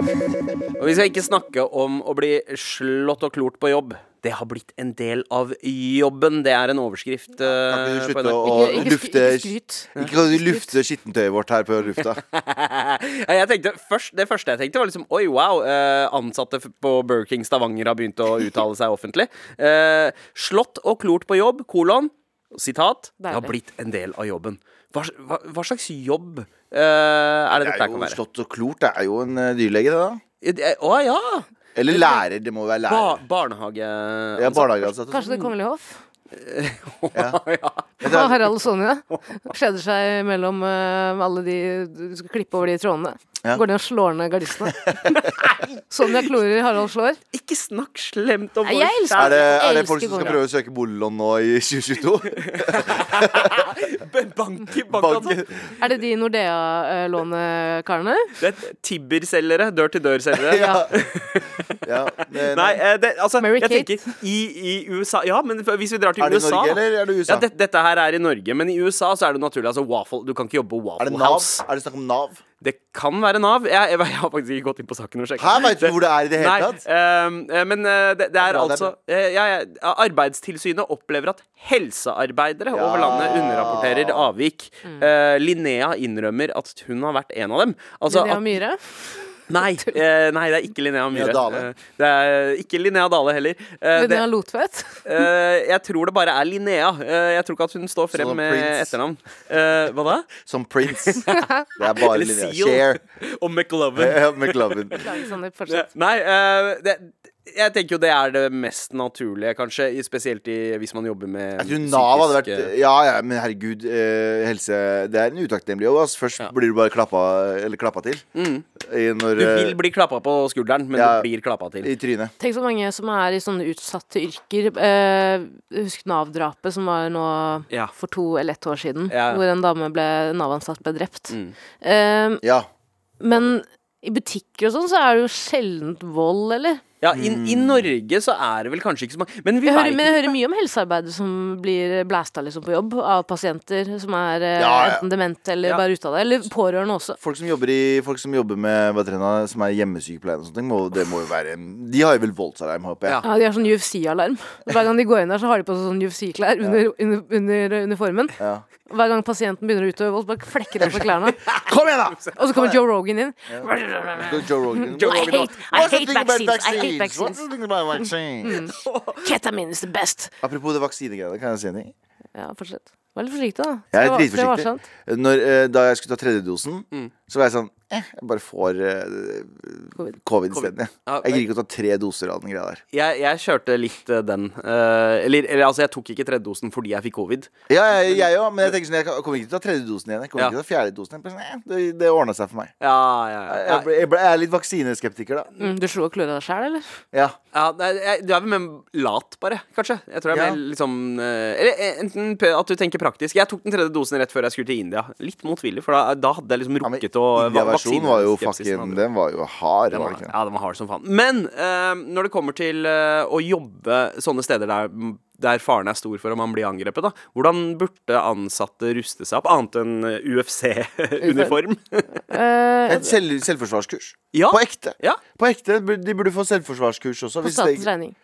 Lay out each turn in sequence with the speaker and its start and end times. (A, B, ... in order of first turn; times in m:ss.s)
0:00.8-0:08.9 A
0:07.4-0:12.2 B
0:08.4-0:10.7 C
0:12.1-0:28.2 A
0:23.2-0:23.5 C
0:27.5-0:30.2 B
0:30.4-0:32.2 A
0:31.7-0:33.2 B
0:32.9-0:35.5 A
0:34.4-0:35.2 B
0:35.1-0:36.0 C
0:36.3-0:37.9 A
0:37.1-0:37.4 B
0:38.0-0:38.5 B
0:38.0-0:45.2 C
0:44.6-0:44.9 B
0:45.1-0:45.8 A
0:45.9-0:47.2 C
0:47.3-0:49.5 A
0:48.6-0:50.4 C
0:49.1-0:53.8 B
0:52.4-0:55.4 A
0:54.9-0:55.7 B
0:55.8-0:58.3 C
0:58.4-1:11.6 A
1:00.4-1:00.9 B
1:00.5-1:00.8 C
1:01.8-1:02.8 B
1:03.4-1:04.0 C
1:06.2-1:07.5 B
1:11.0-1:12.4 B
1:12.6-1:28.6 A
1:15.4-1:16.8 B
1:18.4-1:18.9 B
1:22.7-1:24.3 B
1:28.1-1:30.0 C
1:29.5-1:34.2 A
1:31.1-1:31.7 B
1:33.9-1:35.0 C
1:35.0-1:40.3 A
1:38.1-1:39.0 B
1:40.4-1:43.0 B
1:40.9-1:41.4 A
1:42.0-1:45.1 A
1:44.0-1:45.0 B
1:45.0-1:45.9 C
1:45.7-1:52.7 A
1:51.6-1:58.2 B
1:58.3-1:58.6 A
1:58.8-1:59.8 B
1:59.4-2:01.9 A
2:00.9-2:01.3 B
2:01.8-2:02.3 B
2:02.4-2:12.4 C
2:09.1-2:09.4 A
2:12.4-2:12.7 B
2:13.2-2:16.8 C
2:17.0-2:20.4 A
2:17.1-2:17.9 B
2:19.6-2:27.2 C
2:24.6-2:25.0 B
2:27.2-2:33.2 B
2:33.2-2:41.4 C
2:38.4-2:38.6 B
2:41.4-2:42.4 A
2:41.5-2:42.8 B
2:42.4-2:47.4 C
2:43.5-2:48.6 B
2:45.0-2:45.7 A
2:48.4-2:50.3 C
2:48.7-2:49.3 A
2:50.4-2:51.9 B
2:52.3-2:54.8 C
2:53.9-3:02.8 B
3:00.5-3:01.4 A
3:02.9-3:07.5 A
3:07.7-3:12.7 B
3:12.8-3:13.9 A
3:13.5-3:15.5 B
3:15.6-3:16.8 C
3:17.5-3:29.0 A
3:20.3-3:20.6 B
3:26.8-3:30.3 B
3:29.9-3:42.2 A
3:41.2-3:41.5 C
3:42.3-3:43.1 C
3:42.9-3:47.9 B
3:44.3-3:45.2 A
3:47.4-3:48.2 C